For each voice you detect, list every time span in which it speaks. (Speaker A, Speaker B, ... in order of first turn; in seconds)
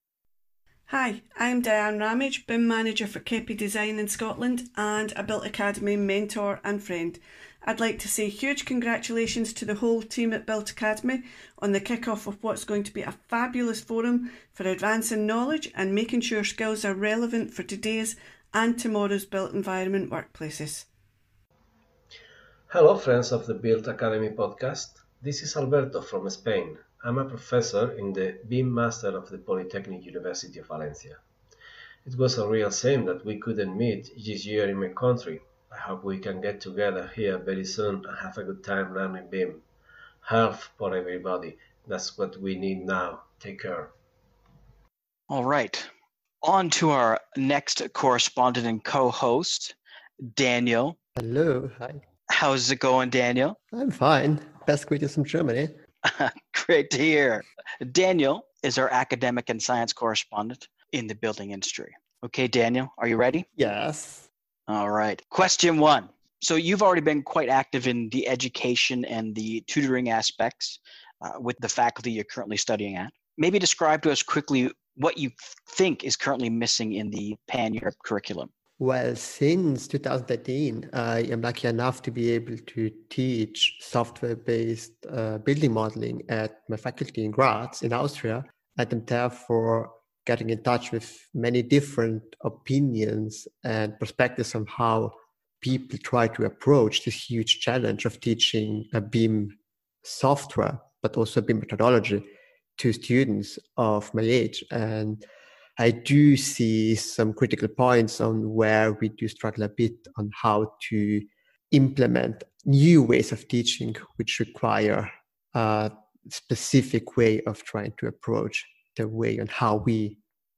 Speaker A: 0.9-20.9
Speaker B: 22.7-31.2, 32.0-39.6, 40.2-44.0
Speaker C: 45.3-45.9, 46.4-49.8, 50.3-51.0, 52.3-53.6, 56.0-63.5, 64.7-78.5
Speaker D: 51.1-52.0, 53.7-55.8, 63.6-64.3, 78.8-102.3, 102.8-105.3, 105.8-120.2